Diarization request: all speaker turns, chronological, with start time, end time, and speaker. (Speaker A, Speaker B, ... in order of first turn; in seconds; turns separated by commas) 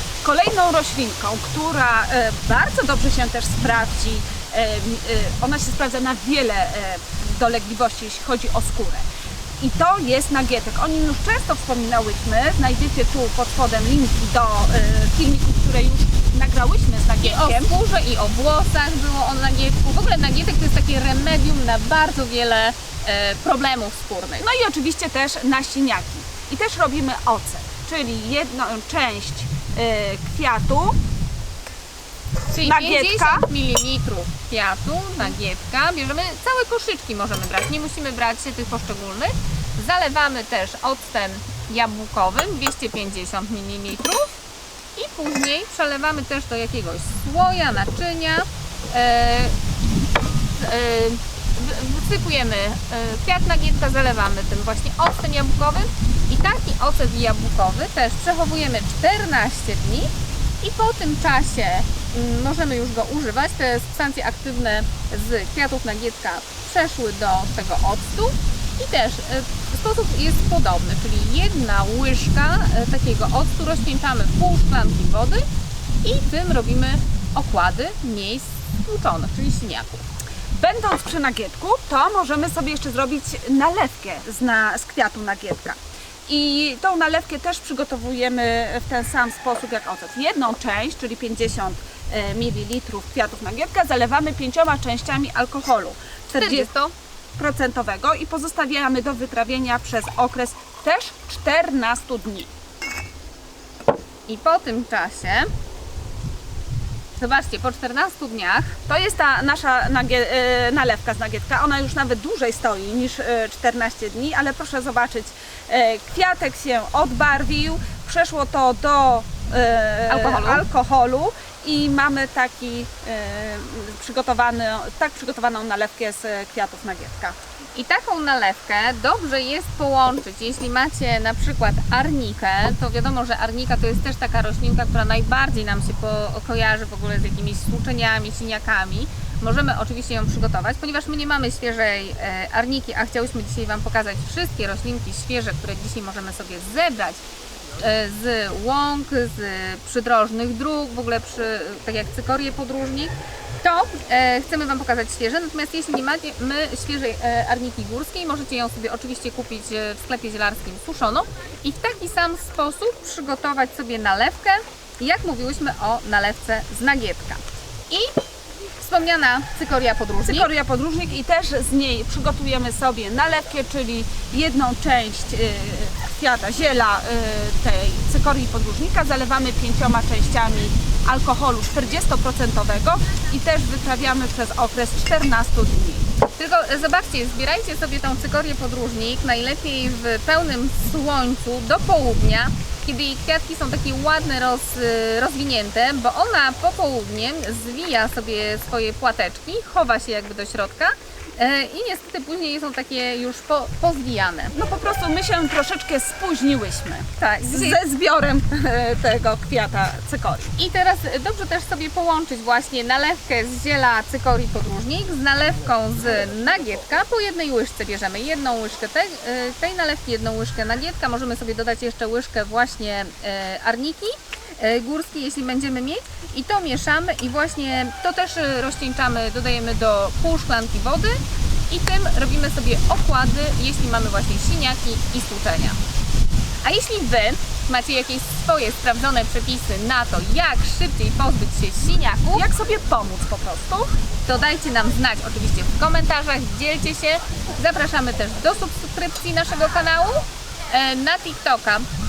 Speaker A: 0.2-9.1, Speaker A: 9.6-17.7, Speaker B: 17.2-24.4, Speaker A: 24.4-31.0, Speaker B: 32.5-44.4, Speaker A: 32.6-33.4, Speaker B: 45.0-49.5, Speaker B: 50.5-60.1, Speaker B: 60.6-75.4, Speaker B: 76.0-80.0, Speaker A: 80.5-96.7, Speaker B: 96.4-96.9, Speaker A: 97.4-102.5, Speaker B: 104.3-105.5, Speaker B: 107.2-108.8, Speaker A: 108.9-127.3, Speaker B: 120.1-120.6, Speaker B: 127.7-147.2, Speaker B: 147.8-168.1, Speaker B: 168.8-170.5, Speaker A: 170.2-186.1, Speaker B: 186.3-204.5, Speaker A: 204.5-210.6, Speaker B: 207.2-207.8, Speaker B: 210.6-235.8, Speaker B: 236.6-242.4, Speaker A: 242.3-243.9, Speaker B: 244.2-251.9